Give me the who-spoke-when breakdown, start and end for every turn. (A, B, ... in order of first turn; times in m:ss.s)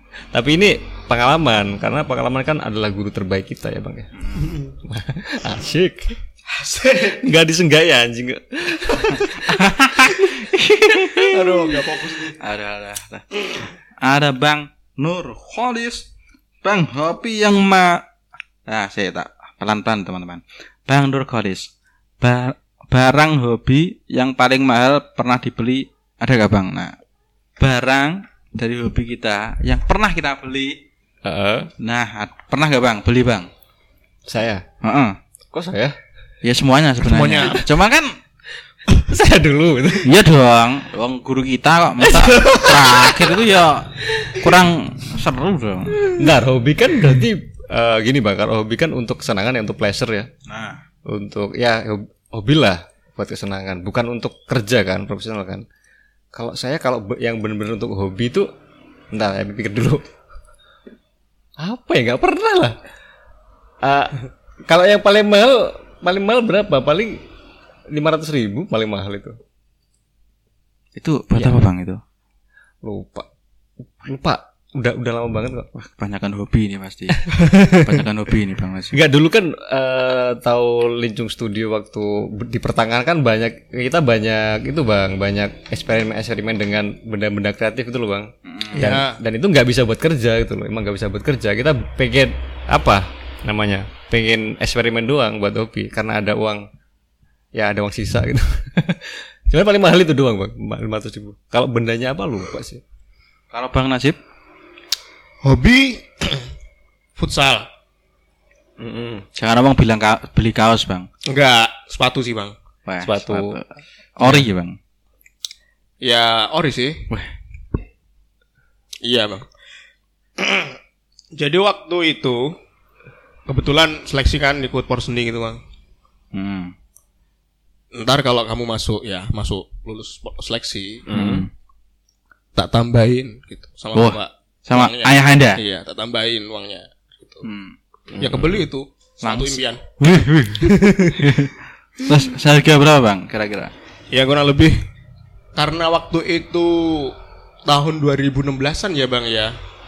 0:00.3-0:04.1 A
0:04.2-0:04.6 B
0:04.4-0:04.7 C
0:04.8-0:06.2 A
0:06.5-0:07.2 C
0:07.1-0:10.3 A
0:09.2-0:11.3 B
0:10.9-0:11.4 A
0:11.3-0:12.4 C
0:12.4-0:16.1 B
0:16.6-0:18.1 B
0:18.7-0:21.7 B
0:22.2-0:27.0 B
0:27.6-0:30.8 B
0:31.2-0:31.7 A
0:31.8-0:33.5 B
0:34.3-0:34.6 A
0:34.8-0:35.2 B
0:35.5-0:36.0 A
0:36.4-0:38.2 B
0:37.0-0:37.7 C
0:39.0-0:40.1 A
0:40.0-0:46.2 B
0:42.2-0:43.3 A
0:44.0-0:44.6 A
0:46.1-0:50.3 A
0:50.5-0:50.8 B
0:51.1-0:55.6 A
0:56.4-0:58.5 A
0:59.1-1:00.0 A
1:01.6-1:02.8 A
1:03.8-1:07.2 A
1:07.9-1:09.4 A
1:11.0-1:12.0 B
1:11.3-1:11.6 A
1:12.8-1:13.3 A
1:14.0-1:15.7 A
1:15.8-1:19.0 B
1:17.4-1:17.8 A
1:17.4-1:17.9 C
1:18.9-1:36.6 A
1:28.5-1:29.0 B
1:28.8-1:29.2 C
1:37.6-1:42.8 A
1:43.5-1:44.2 B
1:45.4-1:46.5 C
1:47.2-1:47.7 C
1:48.8-1:49.2 A
1:49.4-1:51.1 B
1:51.3-1:52.6 C
1:52.9-1:54.8 B
1:53.0-1:53.6 A
1:56.0-1:57.0 C
1:59.0-1:59.5 C
2:00.4-2:00.8 C
2:01.4-2:02.5 C
2:03.5-2:05.6 C
2:06.3-2:06.7 B
2:07.9-2:11.1 C
2:11.1-2:11.5 A
2:11.1-2:11.5 B
2:12.6-2:17.3 C
2:13.9-2:15.6 B
2:17.4-2:17.8 B
2:18.1-2:18.6 A
2:18.2-2:19.8 C
2:19.2-2:23.7 B
2:20.6-2:21.4 C
2:24.1-2:24.8 C
2:25.6-2:29.5 C